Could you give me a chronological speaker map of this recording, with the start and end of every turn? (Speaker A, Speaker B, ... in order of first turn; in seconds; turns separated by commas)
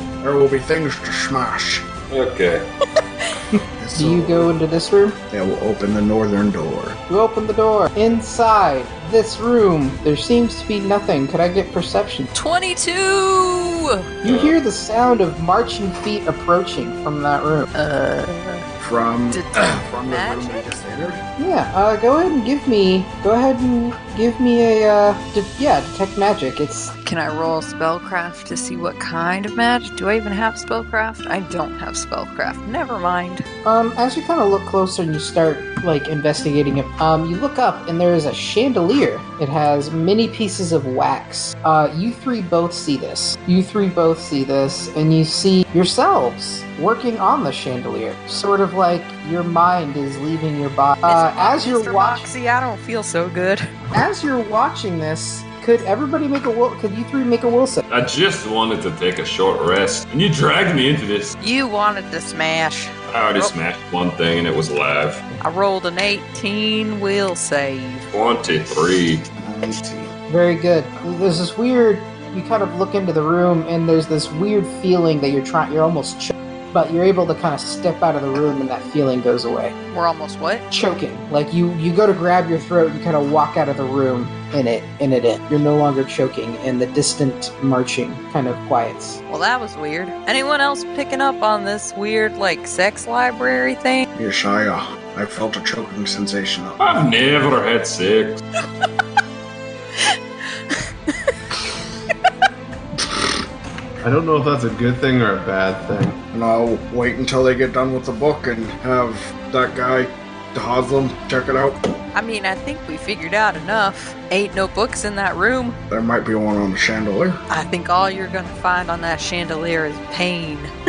Speaker A: 0.2-1.9, Speaker B: 2.1-2.6, Speaker A: 3.8-4.5, Speaker C: 3.9-5.2, Speaker A: 5.3-7.0, Speaker C: 7.1-12.3, Speaker D: 12.3-14.1, Speaker C: 14.2-17.7, Speaker B: 14.2-14.6, Speaker D: 17.7-18.6, Speaker A: 18.8-21.2, Speaker D: 19.3-20.7, Speaker C: 21.4-26.9, Speaker D: 27.0-33.4, Speaker C: 33.6-52.3, Speaker D: 51.0-53.7, Speaker C: 53.9-57.8, Speaker B: 57.9-61.3, Speaker D: 61.4-63.5, Speaker B: 63.1-65.2, Speaker D: 65.4-68.1, Speaker B: 68.1-69.2, Speaker A: 69.4-70.1, Speaker C: 70.3-79.7, Speaker D: 79.9-80.6, Speaker C: 80.7-89.2, Speaker D: 89.3-94.1, Speaker A: 94.1-97.0, Speaker B: 96.8-98.4, Speaker D: 100.7-101.3, Speaker E: 104.0-106.2, Speaker A: 106.3-111.8, Speaker D: 112.1-115.8, Speaker A: 115.9-117.4, Speaker D: 117.5-120.7